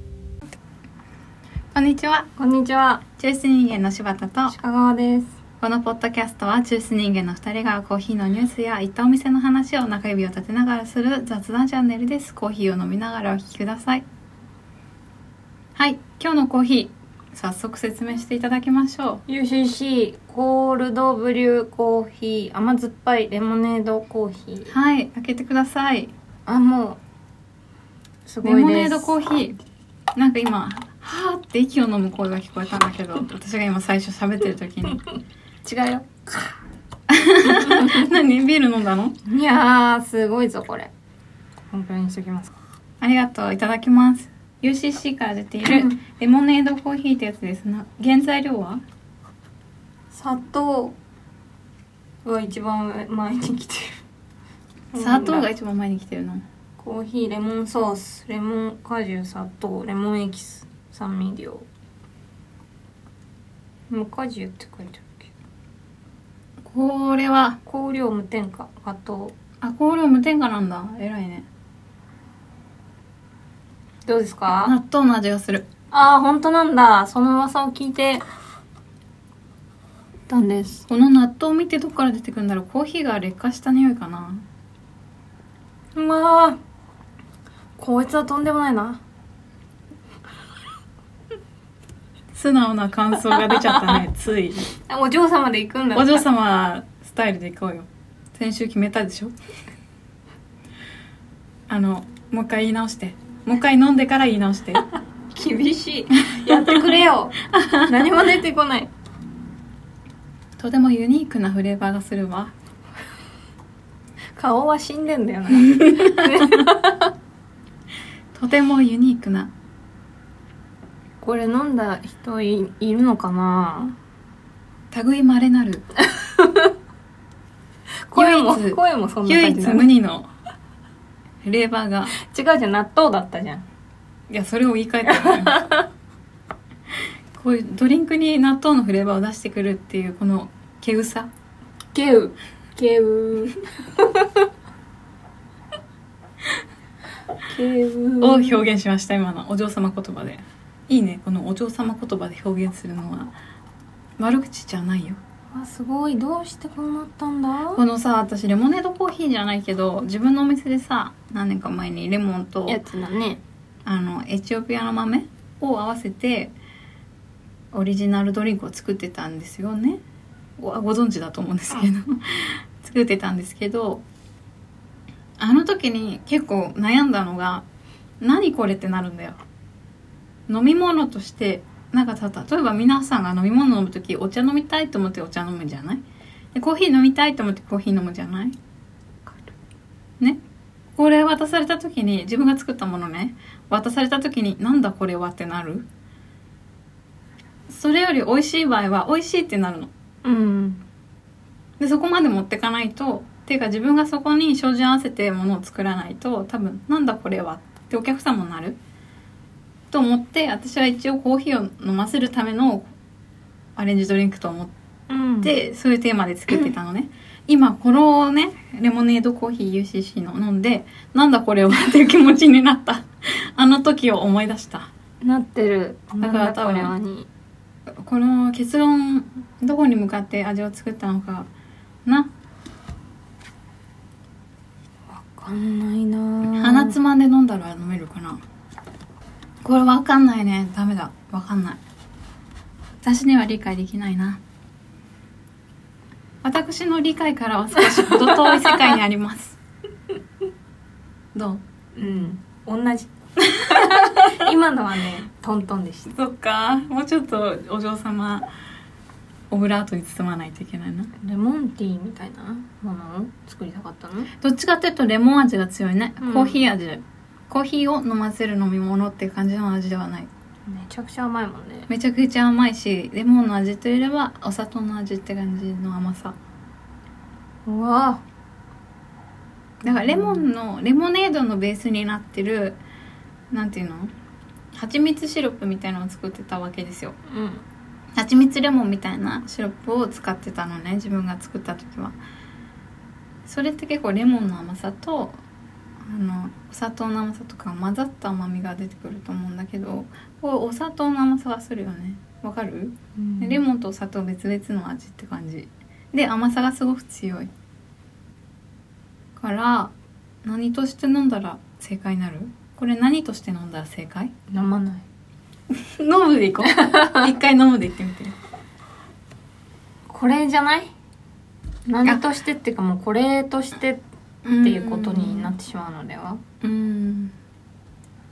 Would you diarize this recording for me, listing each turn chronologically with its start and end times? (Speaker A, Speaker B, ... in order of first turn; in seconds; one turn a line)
Speaker A: 1.7-2.3
Speaker B: 2.4-3.0
Speaker A: 3.2-4.6
Speaker B: 4.5-5.3
Speaker A: 5.6-14.1
Speaker A: 15.8-19.2
Speaker B: 19.3-24.7
Speaker A: 24.7-26.1
Speaker B: 26.5-27.0
Speaker B: 28.3-29.1
Speaker A: 28.4-29.6
Speaker A: 30.1-35.0
Speaker B: 35.7-36.5
Speaker A: 37.1-39.2
Speaker B: 37.6-38.0
Speaker B: 39.2-40.9
Speaker B: 41.7-42.5
Speaker A: 43.0-48.8
Speaker B: 45.6-46.0
Speaker B: 50.1-51.0
Speaker B: 52.2-54.0
Speaker B: 54.9-55.5
Speaker A: 55.0-56.4
Speaker B: 56.8-61.7
Speaker B: 63.9-65.3
Speaker A: 66.6-67.6
Speaker B: 67.7-69.3
Speaker A: 69.6-71.5
Speaker B: 74.1-74.8
Speaker A: 74.6-75.7
Speaker B: 75.9-78.2
Speaker B: 80.3-80.8
Speaker A: 80.9-84.4
Speaker B: 86.0-86.6
Speaker B: 87.8-89.0
Speaker A: 92.3-94.7
Speaker B: 93.4-94.0
Speaker B: 94.8-96.2
Speaker A: 96.0-99.3
Speaker A: 101.7-104.8
Speaker B: 105.3-108.9
Speaker A: 106.5-106.8
Speaker A: 107.5-107.9
Speaker A: 110.6-112.5
Speaker B: 114.4-117.1
Speaker A: 118.3-119.5
Speaker B: 121.2-124.0
Speaker A: 124.9-125.8
Speaker B: 126.0-126.7
Speaker B: 128.1-129.9
Speaker A: 128.2-130.3
Speaker A: 131.4-132.1
Speaker B: 132.1-133.7
Speaker A: 134.3-135.6
Speaker B: 135.1-135.9
Speaker A: 137.3-141.3
Speaker B: 141.9-144.4
Speaker B: 147.5-148.6
Speaker A: 148.2-153.3
Speaker A: 154.2-155.2
Speaker B: 155.5-157.8
Speaker A: 157.8-162.8
Speaker B: 162.7-163.4
Speaker A: 163.8-166.5
Speaker A: 167.7-170.0
Speaker A: 170.6-174.1
Speaker A: 175.4-177.7
Speaker A: 178.2-179.4
Speaker A: 180.5-186.0
Speaker A: 186.6-188.6
Speaker A: 191.0-195.9
Speaker A: 197.7-199.9
Speaker B: 200.2-200.8
Speaker A: 201.8-208.8
Speaker A: 209.9-212.9
Speaker A: 213.8-214.7
Speaker B: 215.1-215.5
Speaker A: 215.4-224.9
Speaker B: 225.2-227.3
Speaker A: 226.2-226.9
Speaker A: 227.9-231.5
Speaker A: 232.1-232.3
Speaker B: 235.1-236.9
Speaker A: 236.6-238.4
Speaker A: 239.6-241.8
Speaker A: 243.0-244.4
Speaker A: 246.4-249.6
Speaker B: 248.0-248.8
Speaker A: 251.3-251.6
Speaker B: 252.0-256.1
Speaker A: 253.6-254.2
Speaker A: 256.1-258.5
Speaker A: 259.5-261.1
Speaker B: 261.2-264.3
Speaker A: 264.4-270.3
Speaker B: 266.2-266.6
Speaker B: 270.7-271.9
Speaker A: 271.9-276.4
Speaker B: 277.7-278.2
Speaker A: 279.8-282.8
Speaker B: 279.9-280.4
Speaker A: 283.5-284.1
Speaker A: 284.8-287.2
Speaker B: 287.3-287.6
Speaker A: 288.2-292.2
Speaker A: 293.4-295.4
Speaker A: 296.0-307.5
Speaker B: 303.2-303.6
Speaker A: 309.4-309.9
Speaker A: 310.4-314.3
Speaker B: 314.5-315.1
Speaker A: 315.7-318.4
Speaker B: 316.7-317.3
Speaker B: 320.1-320.9
Speaker B: 321.9-324.0
Speaker A: 324.4-325.5
Speaker B: 324.6-326.4
Speaker A: 326.6-327.3